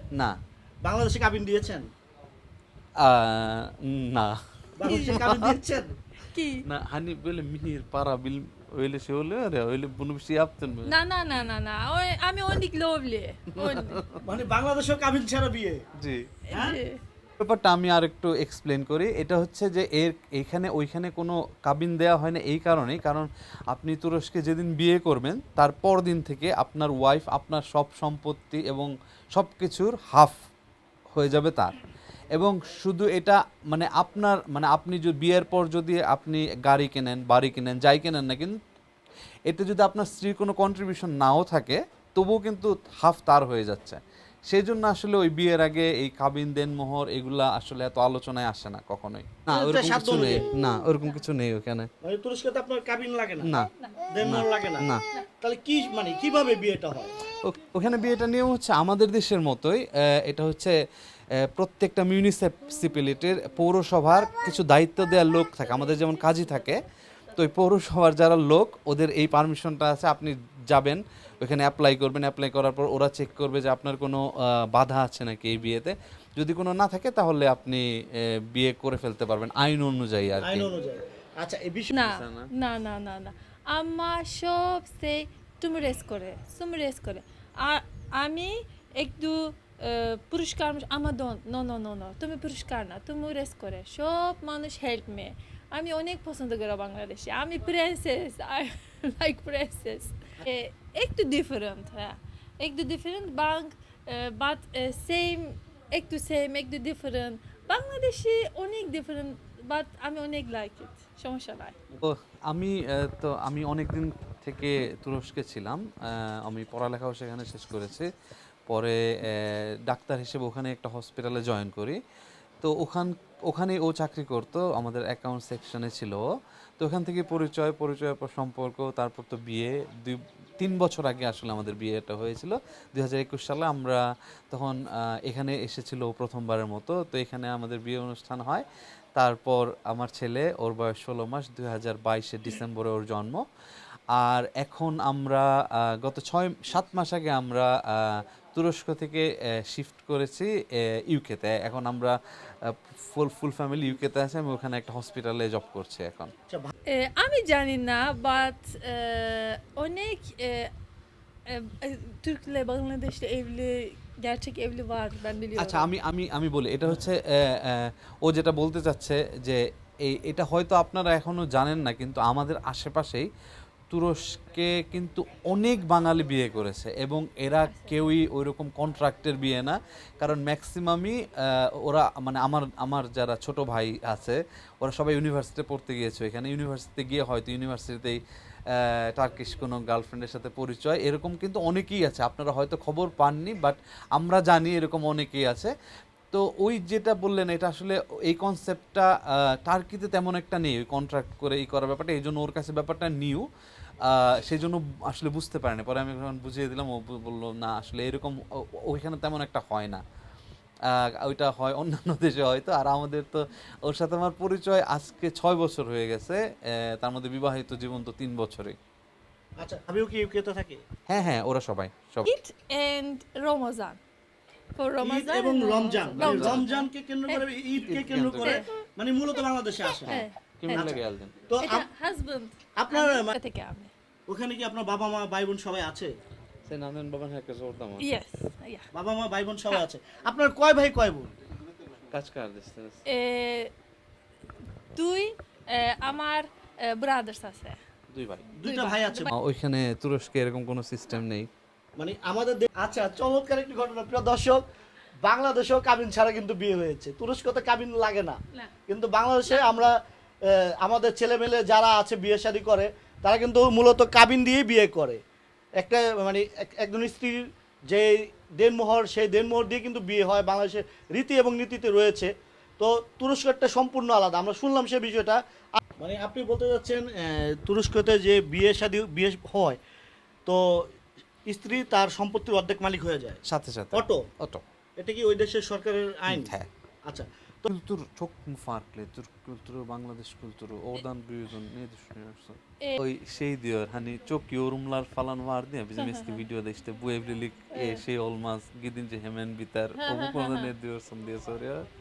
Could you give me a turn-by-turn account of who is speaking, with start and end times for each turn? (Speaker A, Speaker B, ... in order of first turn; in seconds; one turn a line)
Speaker A: 0.8-1.9
Speaker B: 3.0-5.5
Speaker A: 4.8-6.0
Speaker C: 4.9-5.2
Speaker C: 6.3-6.6
Speaker B: 6.7-10.9
Speaker C: 10.9-14.0
Speaker B: 13.6-14.2
Speaker A: 14.2-15.8
Speaker B: 16.0-16.2
Speaker C: 16.5-17.0
Speaker A: 16.5-16.8
Speaker B: 17.4-30.4
Speaker B: 31.1-31.7
Speaker B: 32.3-38.6
Speaker B: 39.5-51.9
Speaker A: 49.5-50.5
Speaker A: 52.0-53.5
Speaker B: 53.4-53.7
Speaker C: 53.6-54.1
Speaker A: 54.1-54.9
Speaker B: 54.2-55.0
Speaker A: 55.4-57.1
Speaker B: 57.4-60.8
Speaker B: 61.4-80.7
Speaker A: 80.4-82.0
Speaker C: 81.9-111.8
Speaker B: 82.0-82.5
Speaker B: 112.0-118.1
Speaker B: 118.7-122.0
Speaker B: 122.6-126.2
Speaker B: 126.8-143.4
Speaker B: 144.1-150.5
Speaker B: 151.1-156.3
Speaker C: 156.9-160.7
Speaker C: 161.5-165.9
Speaker B: 165.6-173.3
Speaker B: 173.9-188.2
Speaker C: 177.7-178.1
Speaker B: 188.7-195.7
Speaker B: 196.3-203.5
Speaker B: 204.0-210.0
Speaker B: 210.9-218.8
Speaker A: 219.6-220.8
Speaker B: 221.1-222.3
Speaker C: 222.3-224.0
Speaker C: 224.8-227.4
Speaker A: 225.0-231.9
Speaker B: 226.2-226.6
Speaker B: 227.9-228.6
Speaker C: 228.4-228.7
Speaker C: 229.9-231.0
Speaker B: 230.1-231.3
Speaker C: 231.6-233.9
Speaker A: 232.8-233.4
Speaker A: 234.3-236.1
Speaker B: 236.7-238.1
Speaker C: 238.0-238.9
Speaker A: 238.9-241.3
Speaker B: 242.1-243.0
Speaker C: 243.1-243.7
Speaker C: 244.9-247.8
Speaker B: 248.1-248.5
Speaker A: 248.6-249.3
Speaker C: 248.6-249.3
Speaker B: 249.3-251.5
Speaker A: 252.0-254.6
Speaker A: 255.2-259.9
Speaker C: 259.5-259.9
Speaker A: 260.4-265.2
Speaker A: 265.8-275.4
Speaker A: 276.0-279.8
Speaker A: 280.5-280.8
Speaker A: 281.5-283.4
Speaker B: 283.5-284.6
Speaker A: 283.9-284.3
Speaker A: 285.0-286.5
Speaker B: 286.3-286.7
Speaker A: 287.1-287.7
Speaker B: 287.7-301.9
Speaker C: 296.0-296.5
Speaker C: 297.8-298.0
Speaker C: 300.0-300.7